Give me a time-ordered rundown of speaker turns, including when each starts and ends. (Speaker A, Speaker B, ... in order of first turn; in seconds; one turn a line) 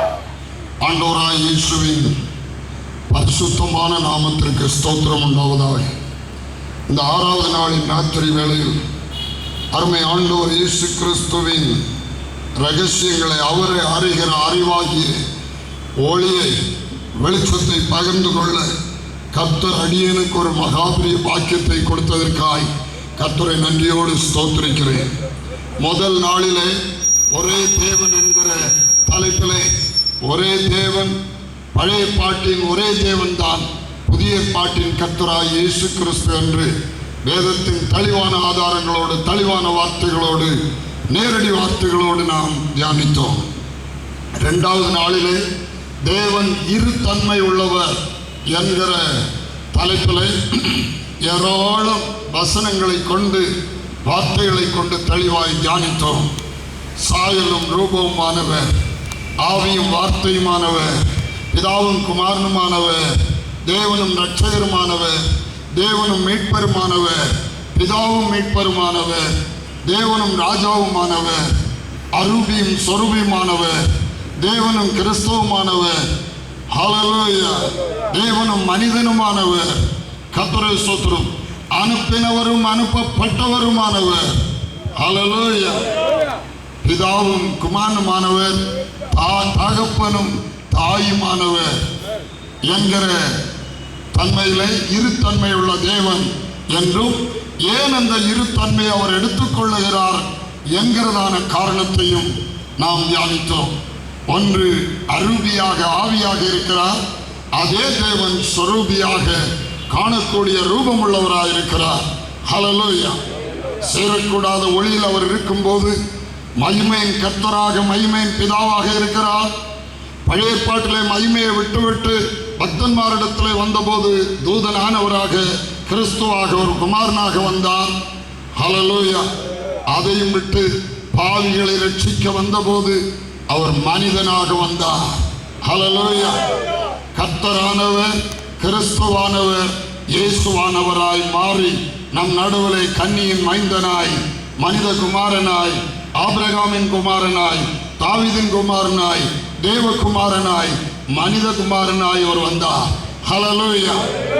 Speaker A: 0.8-2.1
Speaker A: 3.1-5.9
Speaker A: 6.9-8.8
Speaker A: 9.7-11.8
Speaker A: 12.6-15.2
Speaker A: 16.0-16.5
Speaker A: 17.2-18.7
Speaker A: 19.3-25.1
Speaker A: 25.8-26.7
Speaker A: 27.3-29.7
Speaker A: 30.2-31.1
Speaker A: 31.8-36.7
Speaker A: 37.2-40.5
Speaker A: 41.1-43.5
Speaker A: 44.4-45.4
Speaker A: 46.1-48.0
Speaker A: 48.5-49.0
Speaker A: 49.7-53.5
Speaker A: 54.1-56.3
Speaker A: 57.0-58.7
Speaker A: 59.4-60.9
Speaker A: 61.5-63.0
Speaker A: 63.7-65.2
Speaker A: 65.8-69.3
Speaker A: 69.9-71.5
Speaker A: 72.2-73.8
Speaker A: 74.4-76.0
Speaker A: 76.8-79.7
Speaker A: 80.3-84.3
Speaker A: 85.0-85.8
Speaker A: 86.8-88.6
Speaker A: 89.1-91.7
Speaker A: 92.7-93.2
Speaker A: 94.1-97.2
Speaker A: 97.7-103.7
Speaker A: 104.3-107.0
Speaker A: 107.6-109.4
Speaker A: 109.9-113.2
Speaker A: 113.9-116.0
Speaker A: 116.6-119.5
Speaker A: 120.3-127.9
Speaker A: 128.6-129.3
Speaker A: 129.9-133.0
Speaker A: 133.5-135.1
Speaker A: 135.7-136.4
Speaker A: 137.2-154.0